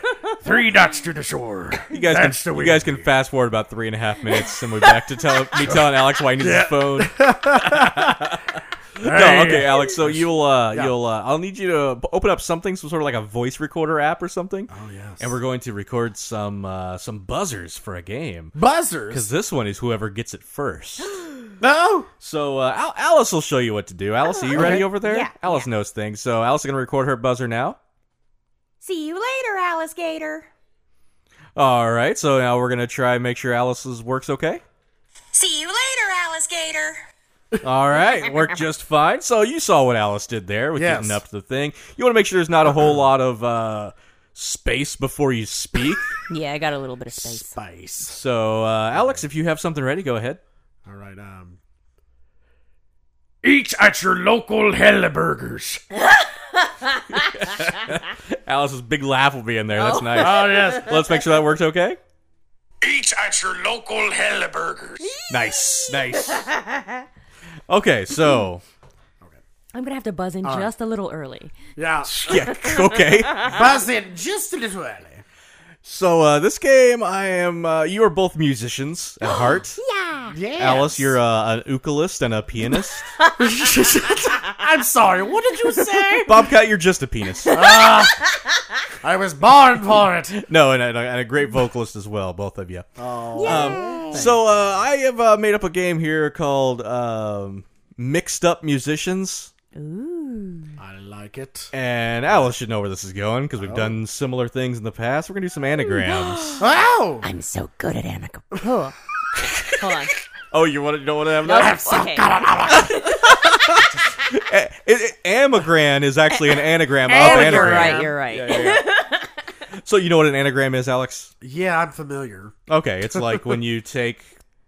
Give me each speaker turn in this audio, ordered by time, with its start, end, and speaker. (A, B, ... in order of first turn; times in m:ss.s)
0:00.4-0:03.1 A
0:01.9-0:18.6 B
0:05.6-0:08.4 A
0:09.0-0:10.9 A
0:14.7-0:15.3 A
0:18.6-0:19.2 A
0:19.1-0:21.2 B
0:21.1-0:21.5 C
0:21.6-0:22.1 A
0:22.2-0:27.8 B
0:24.4-0:25.7 C
0:24.5-0:24.9 A
0:28.8-0:30.5 D
0:31.6-0:34.6 B
0:35.3-0:37.0 D
0:37.6-0:46.1 B
0:40.8-0:41.2 A
0:46.3-0:47.6 C
0:47.1-0:48.2 A
0:48.1-0:50.4 B
0:49.0-0:49.2 A
0:50.9-0:51.6 A
0:53.4-0:55.8 A
0:57.1-1:02.0 B
0:59.8-1:00.8 C
1:00.2-1:01.0 A
1:02.8-1:05.1 A
1:05.0-1:07.0 C
1:05.3-1:06.5 B
1:07.7-1:08.6 B
1:09.7-1:11.6 C
1:10.4-1:10.7 A
1:11.8-1:12.3 A
1:12.0-1:13.6 B
1:12.3-1:13.6 C
1:13.4-1:15.2 A
1:15.8-1:19.8 B
1:19.3-1:20.4 C
1:20.3-1:21.2 A
1:20.6-1:23.1 B
1:23.2-1:23.5 C
1:23.4-1:26.4 A
1:26.3-1:27.5 B
1:27.5-1:28.4 C
1:27.5-1:28.2 A
1:29.0-1:30.4 A
1:30.4-1:32.9 B
1:33.0-1:34.4 A
1:33.4-1:34.3 C
1:33.4-1:39.5 B
1:39.8-1:40.8 C
1:40.8-1:41.7 A
1:41.7-1:46.6 B
1:43.6-1:44.0 A
1:45.8-1:46.7 C
1:46.6-1:47.3 A
1:47.2-1:49.0 C
1:49.6-1:50.2 C
1:50.5-1:51.8 B
1:51.4-1:53.3 A
1:51.4-1:53.8 C
1:52.9-1:58.9 B
1:56.5-1:59.3 C
1:57.1-1:58.2 A
1:59.8-2:01.3 B
2:01.4-2:02.6 A
2:02.7-2:04.3 B
2:03.1-2:03.5 A